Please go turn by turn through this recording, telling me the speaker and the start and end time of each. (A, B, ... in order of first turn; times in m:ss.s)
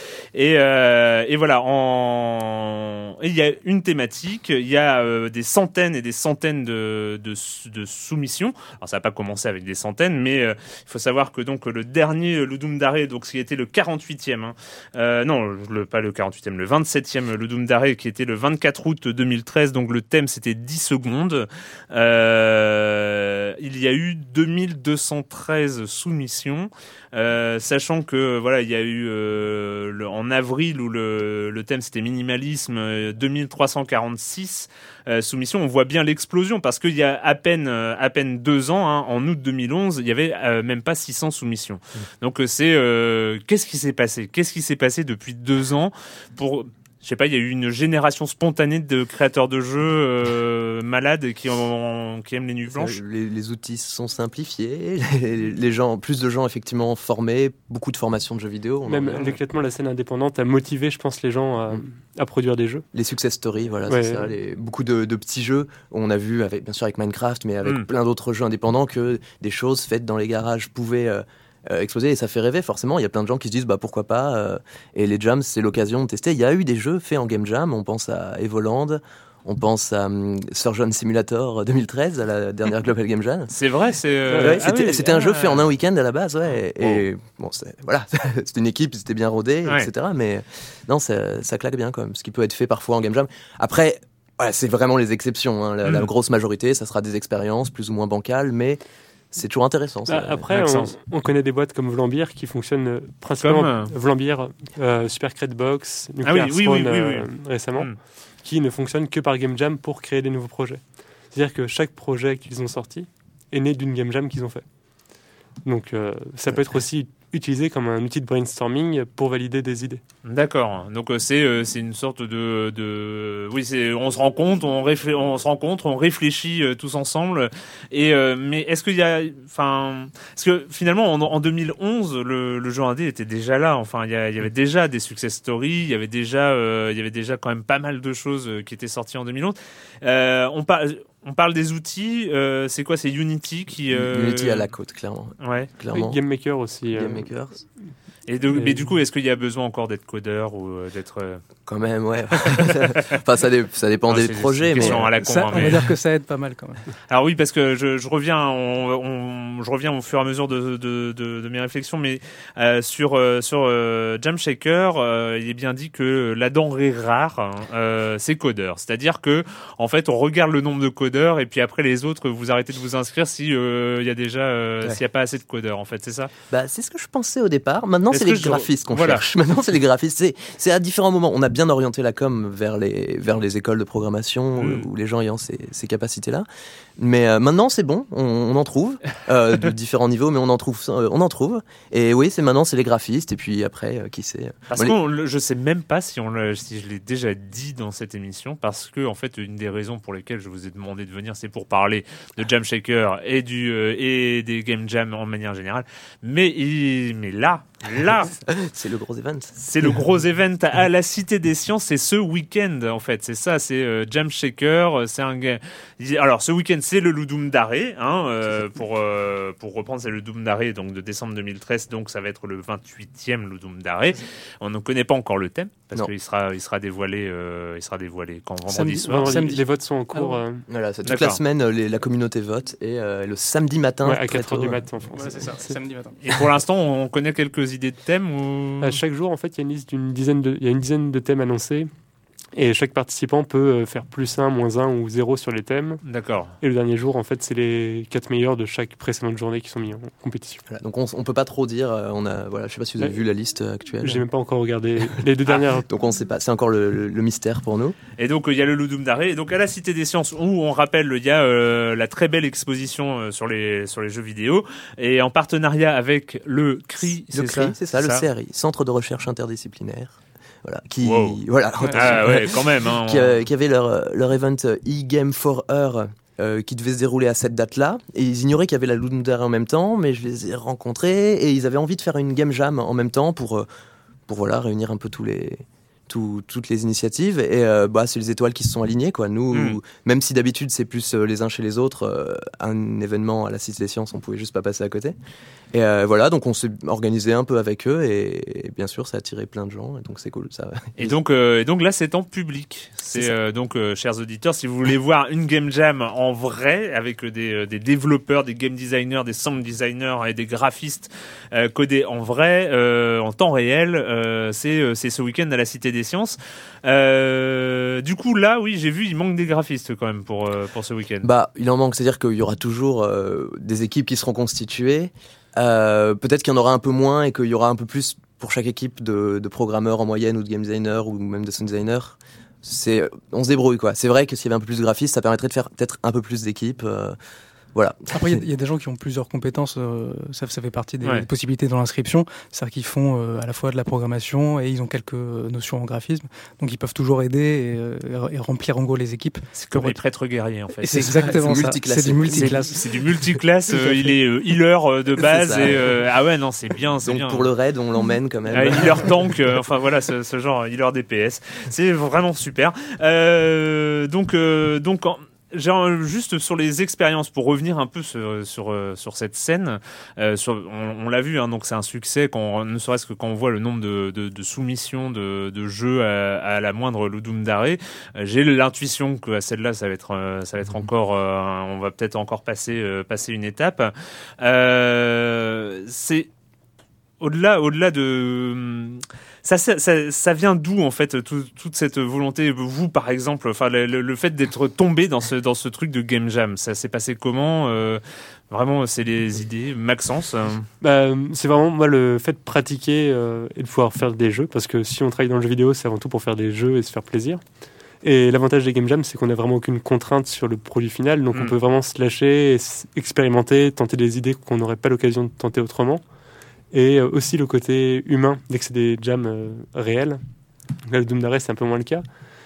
0:00.3-0:53.0 A
0:52.7-0:59.4 B
0:58.9-1:02.9 C
1:02.9-1:23.5 B
1:03.9-1:04.3 C
1:23.5-1:25.6 A
1:24.3-1:24.6 C
1:24.3-1:38.8 B
1:35.8-1:36.1 A
1:39.3-1:40.5 B
1:40.1-1:54.7 C
1:40.5-1:40.9 A
1:43.4-1:43.9 A
1:46.2-1:47.9 A
1:55.6-2:00.0 C
2:00.2-2:24.6 A
2:23.9-2:26.2 B
2:25.4-2:25.7 A
2:25.9-2:27.3 C
2:26.9-2:27.6 B
2:28.3-2:31.4 A
2:28.5-2:28.9 C
2:31.7-2:35.8 B
2:32.5-2:32.8 A
2:34.1-2:35.8 A
2:34.8-2:36.8 D
2:37.1-2:56.3 A
2:56.5-3:06.5 B
2:58.1-2:59.2 A
3:04.6-3:04.9 A
3:07.0-3:15.0 B
3:14.7-3:28.4 A
3:28.4-3:29.8 B
3:29.6-3:49.5 A
3:48.7-3:49.6 D
3:49.1-3:50.7 C
3:50.1-3:50.4 D
3:50.7-3:54.8 B
3:51.0-3:51.4 A
3:54.1-3:55.7 C
3:55.2-3:56.2 D
3:56.2-3:59.0 A
3:58.8-4:01.9 C
4:02.6-4:06.0 C
4:06.0-4:06.6 A
4:06.6-4:10.6 C
4:10.7-4:14.2 B
4:14.0-4:15.9 C
4:15.9-4:18.0 B
4:18.2-4:28.2 A
4:27.3-4:43.7 B
4:31.0-4:31.4 A
4:31.9-4:33.4 A
4:44.3-4:55.2 B
4:49.5-4:49.8 A
4:55.7-5:01.2 B
5:01.0-5:21.3 A
5:21.2-5:37.2 B
5:37.8-5:38.4 B
5:38.1-5:50.0 D
5:49.6-5:51.4 A
5:50.8-5:52.8 D
5:51.2-5:52.6 B
5:52.3-5:57.5 A
5:55.2-5:56.0 B
5:57.0-5:59.2 B
5:58.5-6:26.3 A
6:27.2-6:40.7 A
6:40.8-6:47.4 C
6:48.0-6:56.0 C
6:56.7-7:00.2 C
7:00.8-7:02.0 C